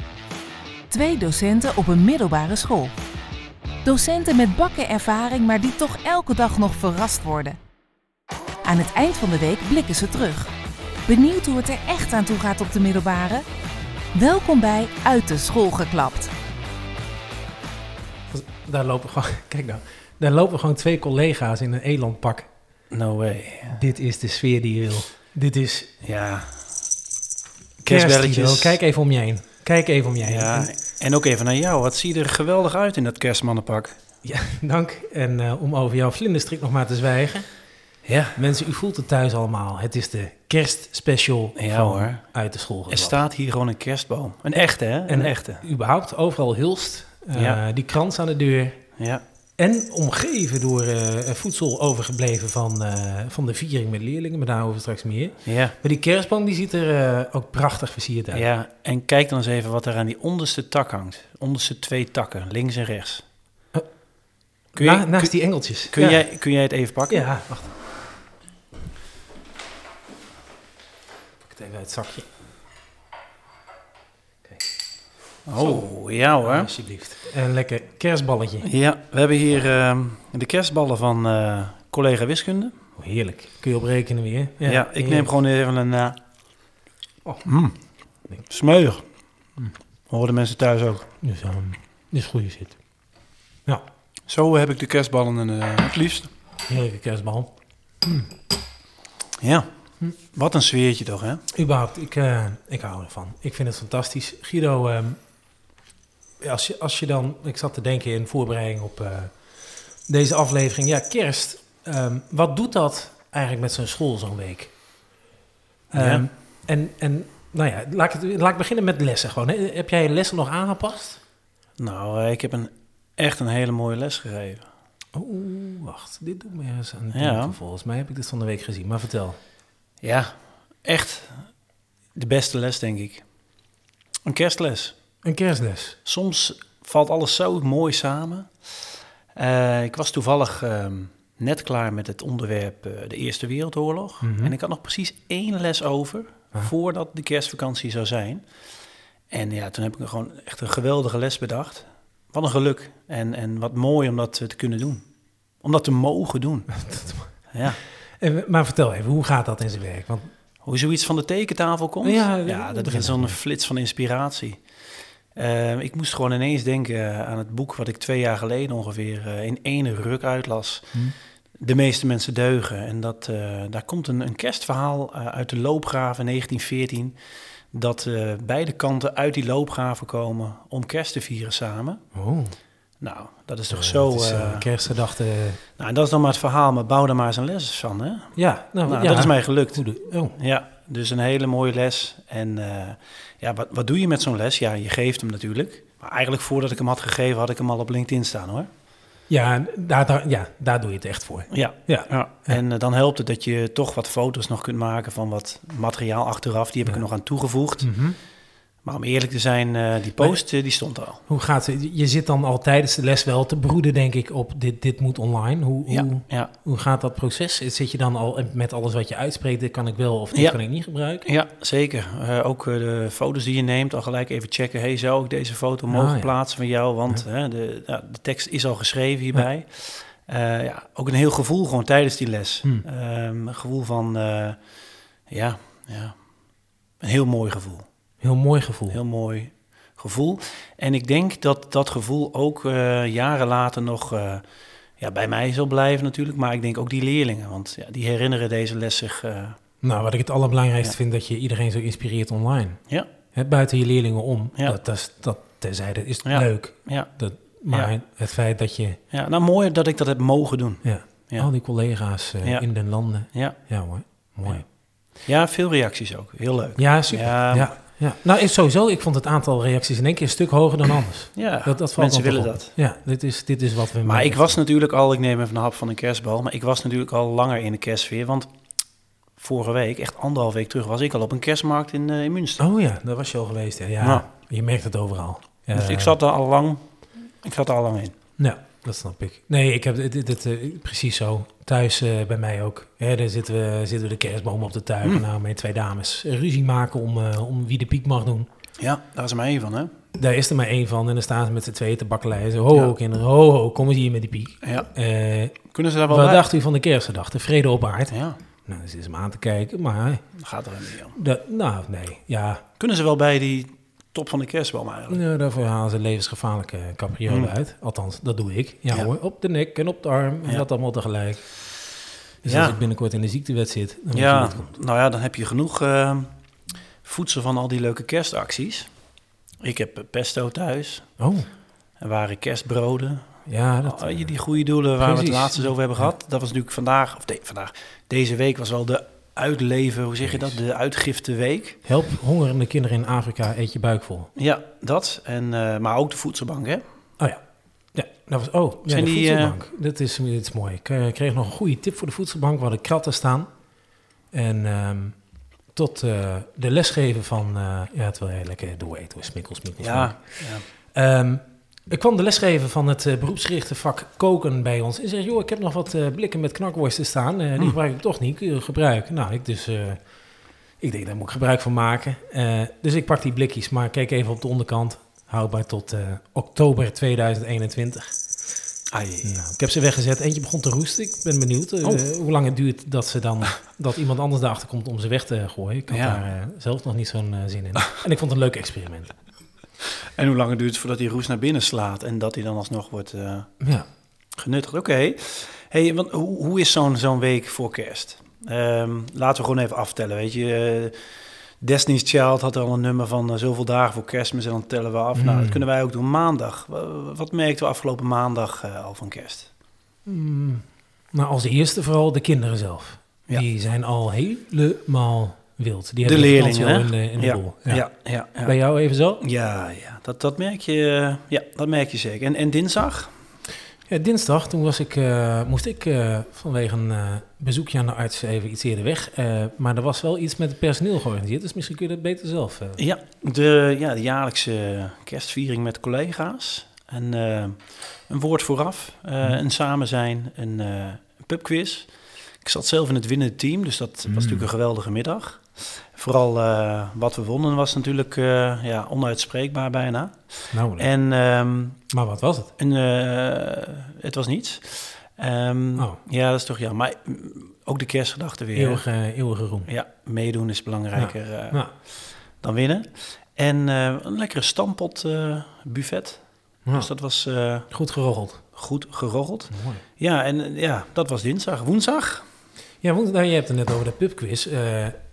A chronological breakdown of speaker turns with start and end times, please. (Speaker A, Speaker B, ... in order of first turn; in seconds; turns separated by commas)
Speaker A: 0.9-2.9, Speaker A: 3.8-7.6, Speaker A: 8.6-10.5, Speaker A: 11.1-13.4, Speaker A: 14.1-16.3, Speaker B: 18.3-22.5, Speaker C: 22.9-23.8, Speaker B: 23.7-25.9, Speaker C: 26.0-26.6, Speaker C: 27.8-28.8, Speaker B: 27.9-30.7, Speaker C: 30.2-34.0, Speaker B: 34.2-37.5, Speaker C: 38.0-38.4, Speaker B: 38.4-43.2, Speaker C: 41.5-42.2, Speaker C: 42.9-45.7, Speaker B: 45.1-48.8, Speaker C: 47.3-47.6, Speaker C: 49.0-49.2, Speaker B: 49.6-58.5, Speaker C: 55.5-55.8, Speaker C: 58.3-63.2, Speaker B: 64.7-66.2, Speaker C: 64.8-65.3, Speaker C: 65.9-67.3, Speaker B: 67.1-67.7, Speaker B: 71.5-72.3, Speaker C: 75.5-76.7, Speaker B: 75.6-75.8, Speaker B: 76.4-78.7, Speaker C: 78.6-82.8, Speaker B: 83.0-85.3, Speaker C: 84.6-86.2, Speaker C: 87.4-87.8, Speaker C: 88.5-89.0, Speaker C: 90.1-91.1, Speaker B: 91.2-92.8, Speaker C: 94.3-96.3, Speaker B: 96.7-97.5, Speaker B: 98.0-98.3, Speaker C: 99.4-99.7, Speaker C: 100.3-101.4, Speaker B: 101.5-105.2, Speaker B: 106.4-109.3, Speaker B: 110.1-114.7, Speaker B: 115.9-121.2, Speaker C: 115.9-116.2, Speaker C: 121.8-124.6, Speaker B: 125.1-129.4, Speaker C: 127.1-127.6, Speaker C: 130.0-130.3, Speaker C: 130.8-131.5, Speaker C: 132.1-133.2, Speaker C: 134.2-134.9, Speaker B: 135.2-136.0, Speaker C: 136.0-138.5, Speaker C: 139.3-148.4, Speaker B: 144.2-144.5, Speaker C: 149.3-155.0, Speaker C: 155.6-156.7, Speaker B: 156.8-157.3, Speaker C: 157.5-157.8, Speaker B: 158.2-160.3, Speaker C: 160.6-164.6, Speaker B: 162.0-163.4, Speaker C: 165.3-171.0, Speaker C: 171.6-177.2, Speaker C: 177.7-182.0, Speaker B: 182.1-182.5, Speaker C: 183.0-184.7, Speaker B: 183.7-185.6, Speaker C: 185.8-198.7, Speaker B: 188.3-190.3, Speaker B: 199.3-202.6, Speaker C: 201.5-207.9, Speaker B: 207.8-208.2, Speaker C: 208.8-211.2, Speaker B: 211.3-221.3, Speaker C: 215.9-216.5, Speaker C: 220.3-220.6, Speaker C: 221.2-234.6, Speaker B: 225.9-226.3, Speaker C: 235.3-236.2, Speaker C: 237.0-237.8, Speaker B: 238.2-239.0, Speaker C: 238.9-244.4, Speaker C: 245.0-249.6, Speaker B: 249.8-252.8, Speaker B: 253.3-259.0, Speaker C: 256.2-257.1, Speaker C: 259.1-261.5, Speaker B: 260.8-264.6, Speaker C: 263.3-263.6, Speaker C: 265.2-267.7, Speaker B: 266.8-274.6, Speaker C: 271.4-272.8, Speaker C: 274.0-278.5, Speaker C: 279.4-282.7, Speaker B: 282.6-286.2, Speaker C: 284.0-284.3, Speaker C: 285.7-286.8, Speaker C: 287.4-288.1, Speaker B: 288.4-298.5, Speaker C: 298.8-299.9, Speaker B: 300.2-308.1, Speaker C: 304.6-304.9, Speaker C: 305.7-306.4, Speaker C: 308.1-308.4, Speaker B: 308.7-310.2, Speaker C: 310.4-311.2, Speaker B: 311.1-312.6, Speaker C: 312.8-315.2, Speaker B: 315.1-321.6, Speaker C: 317.3-317.5, Speaker B: 322.4-324.7, Speaker C: 322.4-322.8, Speaker C: 324.1-326.3, Speaker C: 327.0-328.9, Speaker C: 329.6-331.1, Speaker B: 331.2-331.5, Speaker C: 332.0-333.3, Speaker B: 333.5-334.3, Speaker C: 333.8-341.8, Speaker B: 335.0-335.9, Speaker B: 340.3-340.6, Speaker B: 341.9-344.3, Speaker C: 344.4-346.8, Speaker B: 347.9-353.5, Speaker C: 348.9-349.6, Speaker B: 354.3-355.1, Speaker B: 355.7-370.0, Speaker C: 359.8-360.7, Speaker B: 370.8-378.1, Speaker C: 378.9-379.4, Speaker B: 379.2-389.1, Speaker C: 385.9-386.2, Speaker C: 390.1-393.5, Speaker B: 393.6-393.9, Speaker C: 394.4-401.0, Speaker C: 401.6-409.5, Speaker B: 405.1-405.6, Speaker B: 410.1-417.9, Speaker C: 416.0-418.6, Speaker B: 418.4-419.2, Speaker C: 419.2-423.1, Speaker B: 423.9-432.8, Speaker C: 432.8-441.9, Speaker C: 442.4-451.8, Speaker B: 444.1-444.5, Speaker B: 450.5-450.9, Speaker B: 451.9-452.5, Speaker C: 452.6-458.8, Speaker B: 458.5-459.7, Speaker C: 459.7-467.7, Speaker B: 460.9-461.7, Speaker B: 467.7-468.4, Speaker C: 468.5-472.2, Speaker B: 469.5-469.8, Speaker B: 472.8-475.0